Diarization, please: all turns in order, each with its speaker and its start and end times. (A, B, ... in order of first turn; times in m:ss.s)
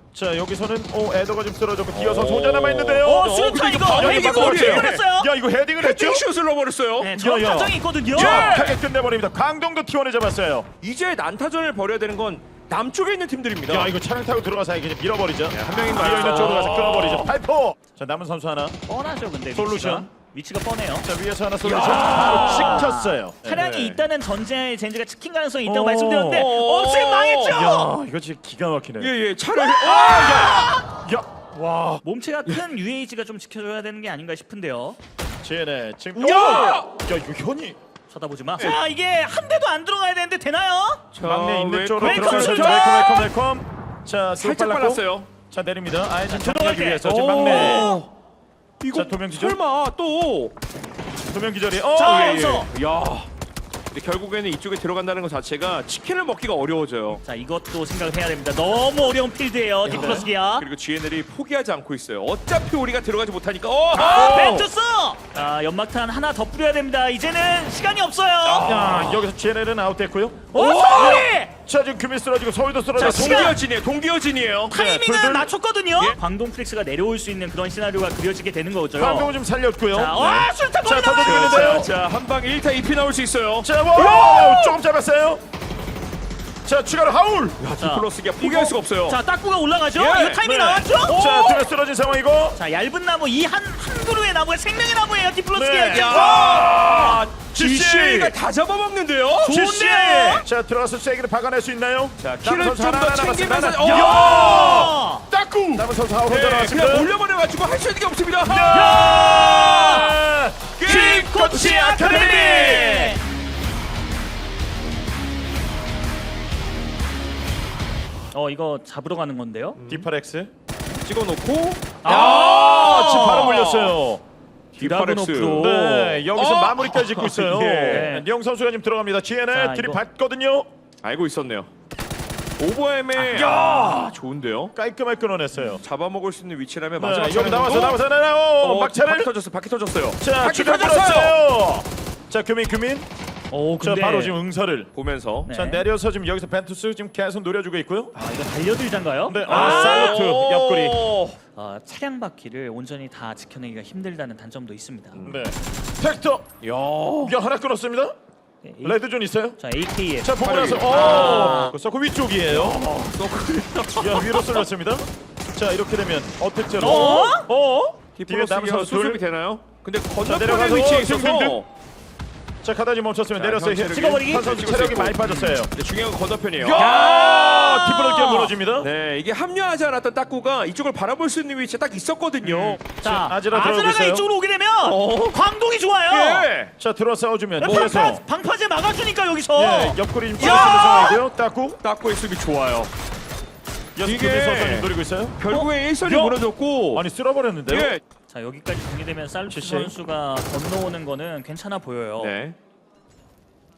0:00.1-0:03.3 A
0:01.9-0:05.0 B
0:03.0-0:05.3 C
0:03.9-0:06.2 A
0:05.8-0:07.1 B
0:07.0-0:08.6 C
0:07.1-0:10.7 A
0:08.1-0:08.8 B
0:10.8-0:13.9 B
0:13.7-0:18.8 A
0:15.5-0:17.3 B
0:15.9-0:16.6 C
0:18.9-0:21.1 C
0:19.5-0:20.1 A
0:21.0-0:23.8 A
0:21.6-0:22.9 B
0:21.8-0:27.9 C
0:23.5-0:23.9 B
0:25.6-0:26.5 A
0:26.3-0:27.7 B
0:27.5-0:29.1 A
0:29.0-0:30.7 B
0:29.6-0:30.8 C
0:29.8-0:32.0 A
0:32.0-0:35.0 C
0:35.4-0:37.8 A
0:36.2-0:36.9 B
0:38.1-0:41.0 C
0:41.1-0:43.2 B
0:41.2-0:48.0 A
0:42.0-0:43.3 C
0:44.4-0:45.3 B
0:46.3-0:48.0 C
0:47.0-0:48.1 B
0:48.8-0:50.5 B
0:48.9-0:49.6 A
0:51.3-0:52.7 A
0:52.0-0:52.7 C
0:52.1-0:53.3 B
0:53.9-0:57.2 B
0:57.2-1:00.6 C
0:59.9-1:00.3 A
0:59.9-1:04.5 B
1:03.9-1:08.8 C
1:04.0-1:04.7 A
1:08.4-1:09.2 B
1:08.6-1:13.6 A
1:10.5-1:11.5 C
1:10.5-1:11.3 B
1:13.0-1:13.6 C
1:13.0-1:14.8 B
1:14.7-1:15.5 A
1:14.7-1:19.3 C
1:19.0-1:20.2 A
1:19.9-1:21.8 C
1:20.2-1:20.5 B
1:20.8-1:21.9 A
1:21.2-1:24.8 B
1:23.6-1:25.4 A
1:26.6-1:27.6 A
1:27.6-1:29.2 B
1:27.8-1:31.2 C
1:29.9-1:30.4 B
1:30.4-1:32.6 A
1:31.1-1:31.7 B
1:32.6-1:36.5 C
1:35.5-1:38.4 A
1:35.9-1:39.6 B
1:39.4-1:40.4 C
1:39.5-1:47.1 A
1:42.2-1:45.0 B
1:43.8-1:45.3 C
1:45.8-1:50.2 B
1:48.4-1:53.2 A
1:48.7-1:50.1 C
1:50.8-1:52.9 B
1:50.8-1:53.2 C
1:58.3-1:59.8 C
1:59.8-2:00.1 B
1:59.9-2:00.5 A
2:01.0-2:04.0 B
2:02.0-2:03.6 C
2:02.0-2:04.2 A
2:04.8-2:05.7 B
2:04.8-2:06.2 C
2:05.6-2:10.7 A
2:06.3-2:08.1 B
2:07.9-2:08.3 C
2:09.5-2:10.0 C
2:11.0-2:11.7 B
2:12.6-2:14.7 B
2:13.2-2:14.0 C
2:13.4-2:13.8 A
2:14.8-2:15.8 A
2:15.8-2:18.0 B
2:17.0-2:19.3 A
2:18.6-2:21.4 B
2:20.2-2:23.1 A
2:23.5-2:24.4 C
2:23.8-2:24.9 A
2:24.9-2:25.5 B
2:25.5-2:25.8 C
2:25.5-2:28.1 A
2:28.2-2:30.4 C
2:29.3-2:31.0 A
2:29.5-2:31.4 B
2:31.6-2:35.2 C
2:35.2-2:35.4 B
2:35.2-2:36.5 A
2:36.6-2:37.4 B
2:37.2-2:38.1 A
2:38.6-2:39.0 C
2:38.8-2:39.6 A
2:39.6-2:40.4 C
2:40.2-2:42.8 A
2:40.4-2:41.6 B
2:40.9-2:41.7 C
2:42.5-2:44.6 B
2:44.0-2:49.2 A
2:46.8-2:47.4 B
2:46.8-2:47.5 C
2:48.1-2:51.7 B
2:50.2-2:51.6 A
2:52.6-2:55.7 A
2:53.4-2:55.2 B
2:53.9-2:54.6 C
2:55.2-2:55.6 C
2:55.7-2:56.9 B
2:56.6-2:58.9 A
2:56.7-2:58.5 C
2:58.8-3:02.8 B
3:02.4-3:06.5 C
3:03.0-3:04.3 A
3:04.9-3:05.4 B
3:06.1-3:06.7 B
3:06.8-3:08.2 A
3:07.6-3:11.2 C
3:09.5-3:11.8 A
3:11.8-3:12.9 B
3:14.0-3:15.4 A
3:14.0-3:17.0 B
3:16.0-3:16.4 A
3:16.9-3:17.9 A
3:17.7-3:18.0 B
3:18.3-3:22.3 C
3:19.5-3:19.9 A
3:22.2-3:22.6 B